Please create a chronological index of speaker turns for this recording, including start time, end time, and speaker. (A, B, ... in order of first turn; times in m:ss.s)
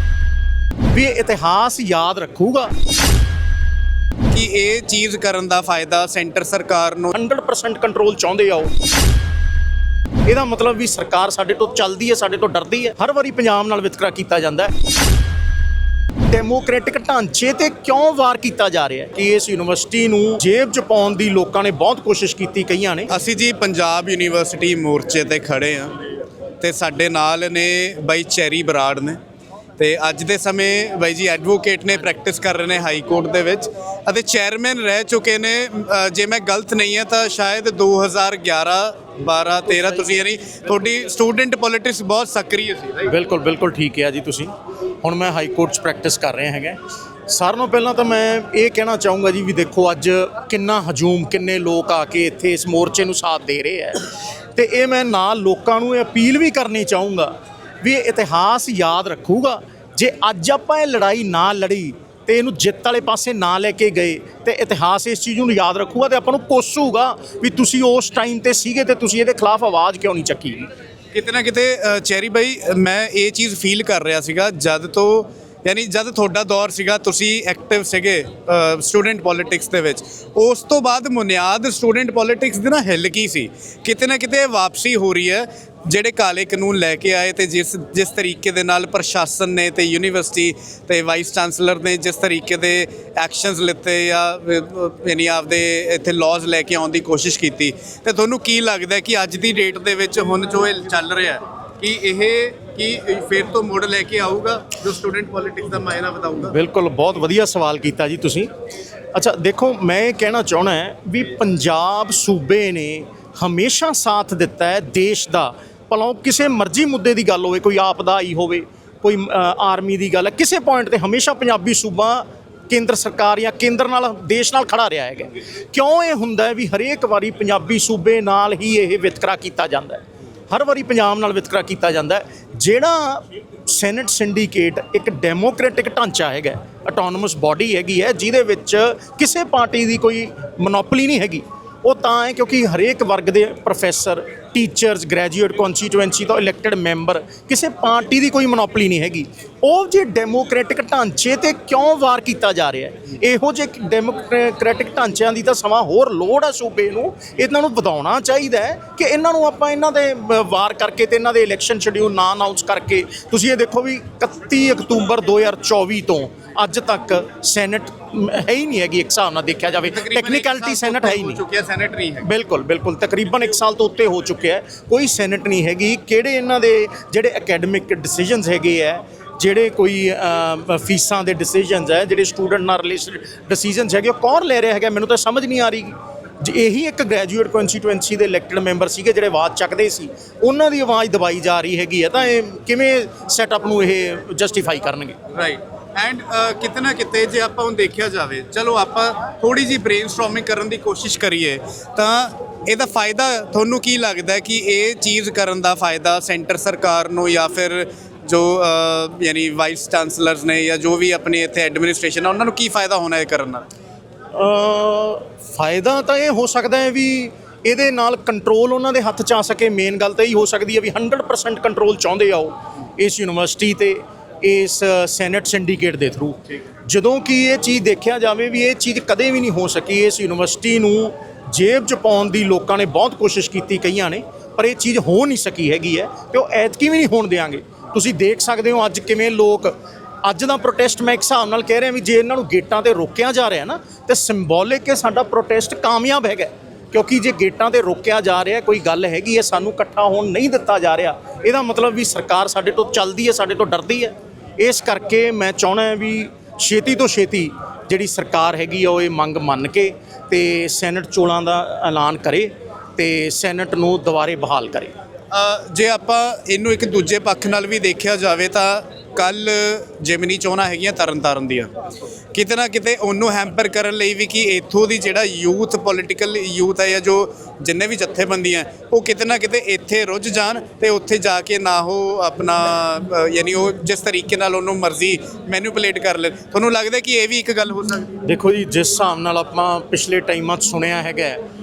0:00.9-0:02.7 A
0:04.3-0:07.1 B
0:07.1-0:08.7 A
0:10.3-0:14.7 A
0:16.3-0:23.1 A
0:23.1-0:25.9 B
0:26.6-0:29.2 B
0:29.8-0:43.1 B
0:43.1-1:10.7 A
1:11.1-1:46.6 B
1:46.5-1:48.5 A
1:49.1-2:51.4 A
2:49.8-2:52.3 B
2:52.2-3:15.2 A
3:15.3-3:33.6 B
3:34.3-4:24.9 A
4:25.3-4:31.7 B
4:32.3-4:48.1 B
4:48.2-4:51.4 A